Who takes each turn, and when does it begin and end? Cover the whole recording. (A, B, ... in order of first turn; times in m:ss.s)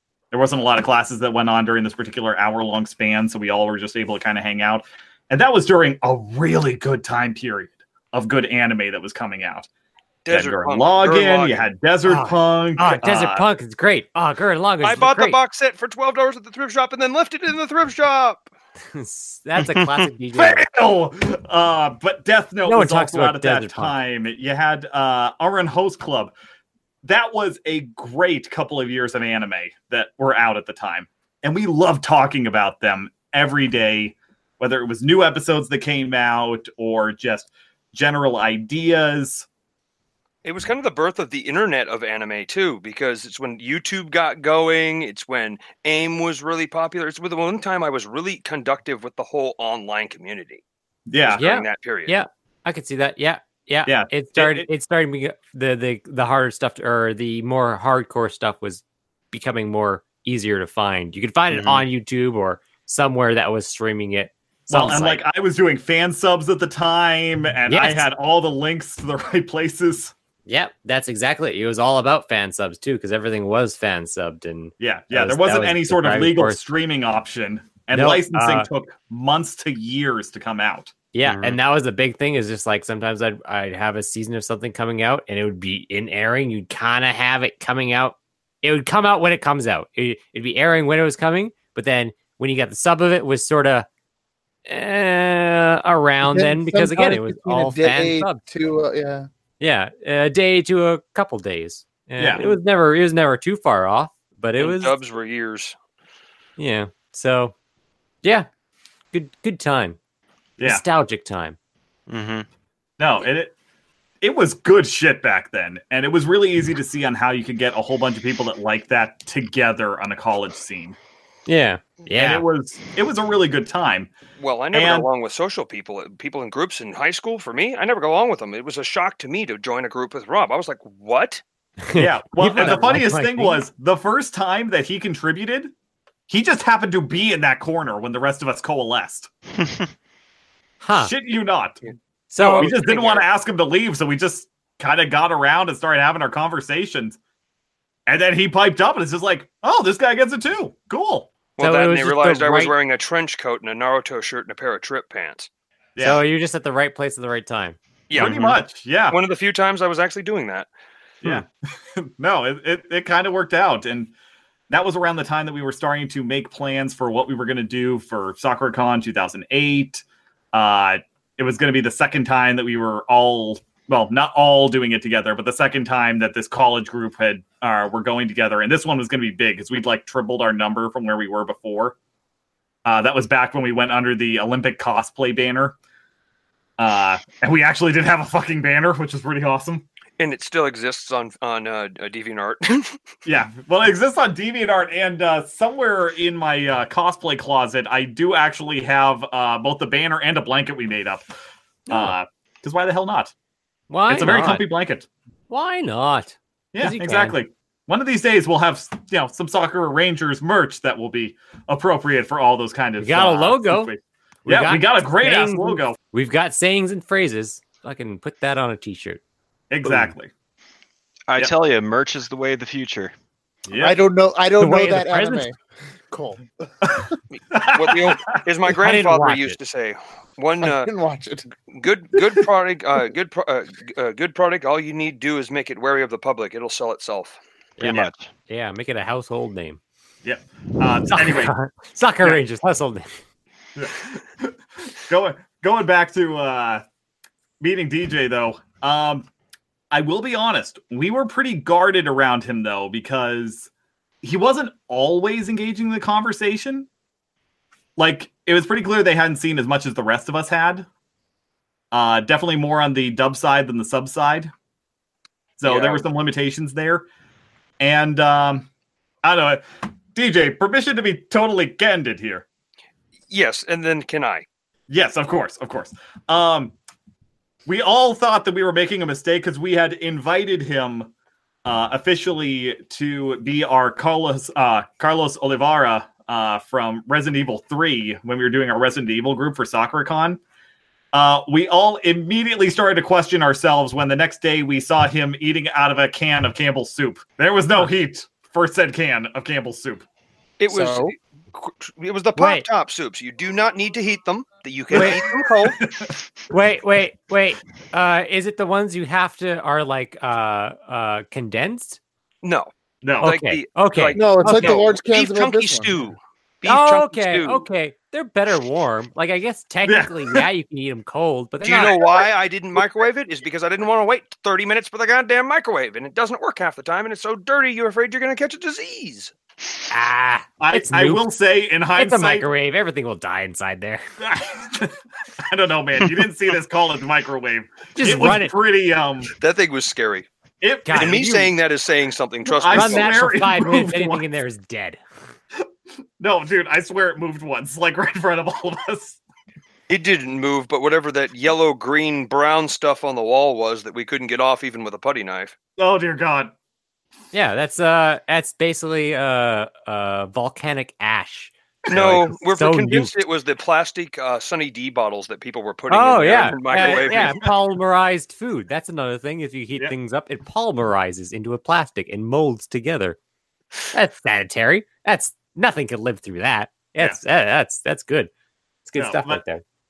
0:00.3-0:09.7 A
0:10.3-0:11.7 B
0:10.3-0:13.4 A
0:12.1-0:15.4 C
0:14.8-0:18.5 B
0:18.9-0:20.7 C
0:19.6-0:19.9 D
0:20.4-0:26.3 A
0:22.7-0:23.9 C
0:27.0-0:39.5 A
0:40.4-0:50.6 B
0:51.1-0:51.4 A
0:51.3-0:52.1 B
0:51.4-1:05.2 C
0:53.9-0:54.7 A
1:01.5-1:01.8 D
1:04.7-1:10.1 A
1:07.7-1:08.0 C
1:10.5-1:16.6 C
1:14.8-1:20.9 A
1:17.9-1:18.7 C
1:21.1-1:33.9 C
1:21.3-1:21.6 D
1:34.7-1:38.4 C
1:36.2-1:39.3 E
1:39.6-1:45.0 C
1:42.2-1:42.5 A
1:44.6-1:45.8 B
1:46.6-1:47.5 C
1:49.1-1:50.0 C
1:50.6-1:50.8 A
1:50.6-1:51.6 C
1:52.1-1:52.5 D
1:53.0-1:53.5 A
1:54.2-2:01.0 A
2:01.5-2:02.4 C
2:02.2-2:04.1 A
2:04.4-2:11.4 B
2:04.7-2:05.1 A
2:11.9-2:13.6 C
2:12.0-2:15.7 A
2:12.6-2:12.9 B
2:16.3-2:19.3 A
2:20.8-2:21.1 C
2:21.0-2:21.9 A
2:22.3-2:23.2 C
2:22.4-2:27.2 A
2:22.4-2:23.2 B
2:28.1-2:31.3 A
2:31.6-2:35.5 B
2:31.6-2:32.8 C
2:36.0-2:36.2 A
2:36.0-2:37.8 C
2:38.1-2:40.7 B
2:38.1-2:39.2 A
2:42.0-2:44.1 A
2:44.7-3:02.0 A
3:02.8-3:05.8 A
3:06.8-3:09.8 A
3:10.2-3:13.0 B
3:13.2-3:21.3 A
3:21.9-3:22.2 C
3:21.9-3:23.3 A
3:23.9-3:24.6 C
3:24.1-3:25.1 A
3:25.5-3:27.4 C
3:26.7-3:36.0 A
3:33.0-3:33.9 C
3:34.4-3:39.2 C
3:39.7-3:40.3 A
3:39.8-3:40.1 C
3:41.3-3:43.1 D
3:43.7-3:44.0 A
3:43.8-3:45.6 E
3:44.6-3:45.5 C
3:46.1-3:46.4 E
3:46.9-3:48.4 A
3:47.7-3:50.9 B
3:48.7-3:49.6 C
3:50.6-3:51.5 E
3:51.7-3:58.1 B
3:57.8-3:59.8 C
3:57.8-3:58.3 D
4:00.2-4:01.5 A
4:01.1-4:03.2 C
4:03.8-4:06.8 A
4:07.6-4:09.3 A
4:09.9-4:13.7 A
4:14.2-4:16.9 A
4:18.0-4:20.9 A
4:21.9-4:24.5 A
4:25.6-4:27.1 A
4:25.6-4:26.1 B
4:27.8-4:28.7 A
4:29.2-4:32.4 A
4:33.3-4:34.5 B
4:34.9-4:36.7 A
4:37.7-4:41.1 A
4:41.6-4:50.4 A
4:51.1-5:00.1 A
5:00.6-5:05.9 B
5:00.7-5:01.2 E
5:02.4-5:02.6 C
5:04.9-5:05.2 C
5:05.0-5:06.2 A
5:06.5-5:12.0 C
5:12.4-5:17.7 B
5:13.0-5:13.4 A
5:13.2-5:14.8 C
5:14.1-5:16.0 E
5:16.7-5:22.0 C
5:19.8-5:20.4 A
5:21.6-5:29.3 B
5:29.9-5:31.3 C
5:30.6-5:32.5 A
5:32.0-5:34.0 C
5:34.2-5:35.0 A
5:35.5-5:39.3 A
5:38.0-5:38.6 C
5:39.4-5:40.3 B
5:40.6-5:41.2 A
5:40.8-5:41.5 C
5:41.0-5:43.1 B
5:42.5-5:44.3 A
5:42.7-5:45.0 C
5:46.2-5:49.2 A
5:49.9-5:55.6 B
5:55.8-5:56.5 A
5:57.3-6:03.1 C
6:01.9-6:07.4 B
6:05.9-6:13.2 C
6:06.8-6:07.5 A
6:13.9-6:18.3 C
6:18.9-6:19.6 C
6:19.0-6:19.4 A